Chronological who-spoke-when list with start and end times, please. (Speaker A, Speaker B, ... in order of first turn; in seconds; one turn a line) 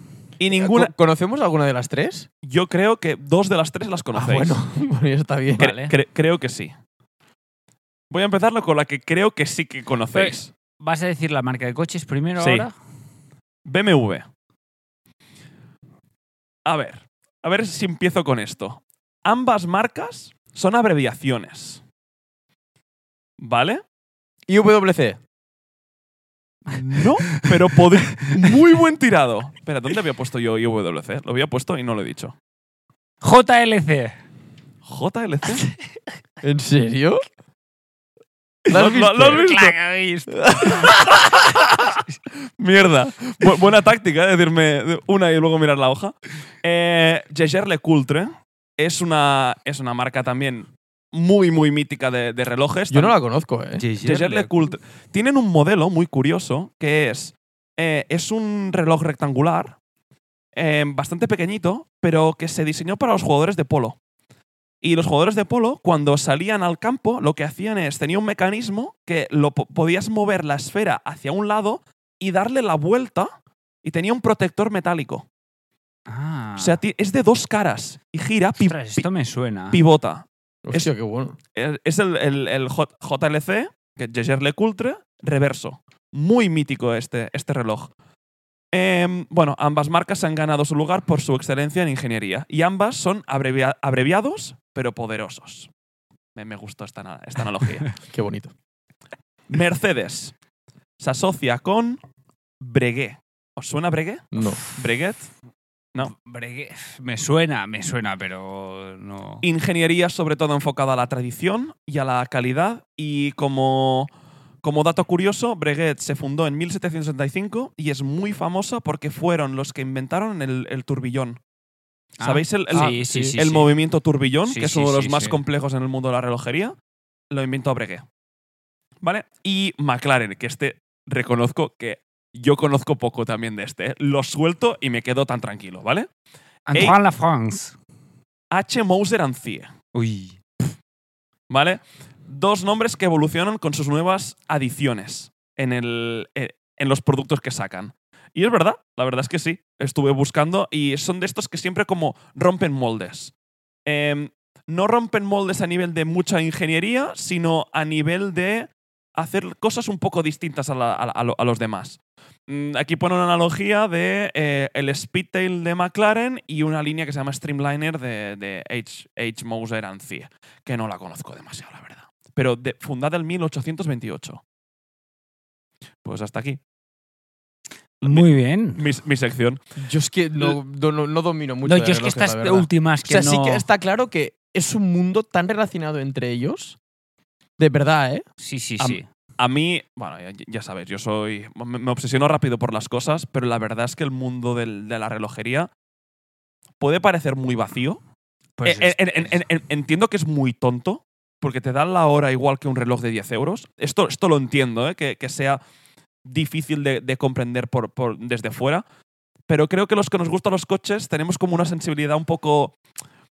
Speaker A: 0.4-0.9
Speaker B: 0.5-2.3
Speaker A: 2.4-4.6
Speaker B: 4.1-5.7
Speaker C: 5.6-5.9
Speaker A: 5.6-6.7
Speaker A: 8.1-10.5
Speaker C: 10.1-12.7
Speaker A: 12.4-12.7
Speaker A: 13.7-14.3
Speaker A: 16.6-21.8
Speaker A: 23.4-23.8
Speaker B: 24.5-25.2
Speaker A: 26.7-32.3
Speaker C: 33.2-34.1
Speaker A: 34.8-35.7
Speaker B: 36.4-37.2
Speaker B: 38.7-39.4
Speaker A: 38.7-39.7
Speaker C: 39.0-41.1
Speaker B: 40.3-41.1
Speaker A: 41.0-41.3
Speaker A: 42.6-53.1
Speaker B: 52.9-53.8
Speaker C: 53.8-54.5
Speaker A: 54.0-59.8
Speaker A: 60.5-64.0
Speaker A: 64.8-73.3
Speaker A: 73.8-75.3
Speaker C: 76.1-76.8
Speaker A: 76.6-79.0
Speaker C: 78.6-79.8
Speaker A: 79.7-80.9
Speaker B: 80.6-81.4
Speaker A: 81.5-87.9
Speaker A: 88.7-95.7
Speaker A: 96.3-97.9
Speaker B: 98.1-98.5
Speaker A: 99.5-100.3
Speaker A: 101.0-102.0
Speaker A: 102.6-105.3
Speaker B: 104.3-104.6
Speaker C: 106.0-109.4
Speaker A: 109.4-114.1
Speaker A: 114.6-121.4
Speaker C: 122.2-123.7
Speaker A: 122.2-126.7
Speaker B: 122.7-123.3
Speaker C: 124.5-125.4
Speaker A: 127.3-128.0
Speaker A: 129.0-136.1
Speaker C: 136.7-137.8
Speaker A: 138.5-139.7
Speaker C: 139.9-140.4
Speaker A: 141.5-153.3
Speaker A: 153.8-174.4
Speaker A: 176.0-176.6
Speaker A: 178.0-179.6
Speaker C: 178.0-178.8
Speaker B: 179.8-186.8
Speaker C: 181.6-183.6
Speaker B: 187.6-188.2
Speaker C: 188.4-189.0
Speaker A: 188.8-195.7
Speaker A: 196.8-198.0
Speaker C: 198.6-199.4
Speaker A: 198.6-205.6
Speaker A: 206.2-208.8
Speaker A: 209.5-212.8